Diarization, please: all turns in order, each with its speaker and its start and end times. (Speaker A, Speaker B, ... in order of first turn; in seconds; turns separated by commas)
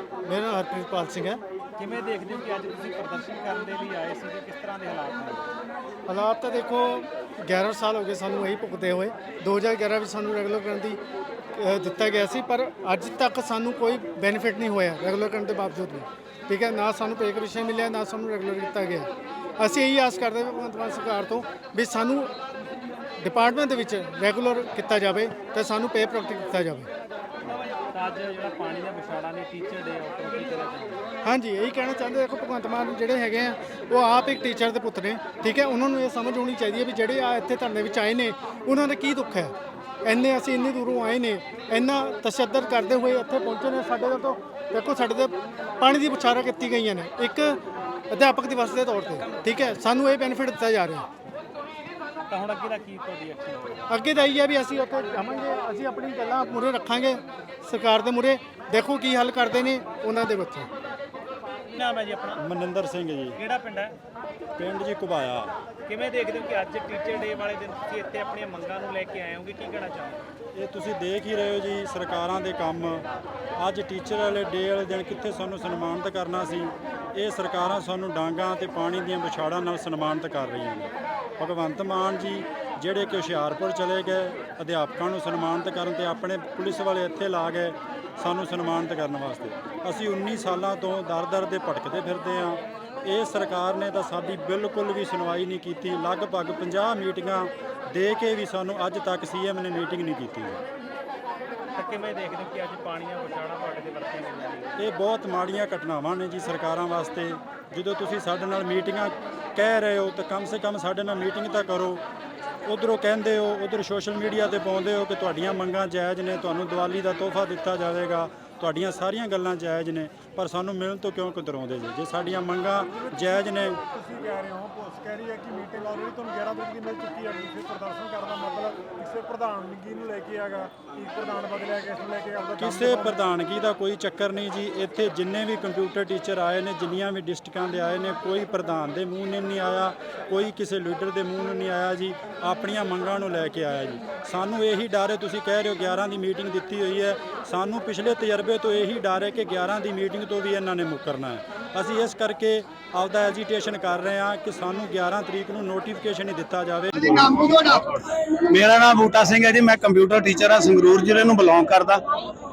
Speaker A: 0.2-1.4, Speaker B: 1.8-5.5, Speaker A: 6.1-11.0, Speaker A: 11.5-22.3, Speaker A: 23.2-26.9, Speaker B: 27.5-31.0, Speaker A: 31.2-47.6, Speaker A: 48.1-51.0, Speaker B: 49.2-49.7, Speaker B: 52.3-53.9, Speaker A: 53.9-60.7, Speaker B: 61.7-62.4, Speaker C: 62.4-63.4, Speaker B: 63.4-63.9, Speaker C: 64.6-65.5, Speaker B: 65.9-70.2, Speaker C: 70.5-73.0, Speaker C: 73.6-100.6, Speaker B: 101.8-104.8, Speaker C: 104.8-112.0, Speaker C: 112.7-123.8, Speaker D: 123.9-133.2, Speaker C: 132.6-157.6, Speaker E: 157.2-162.0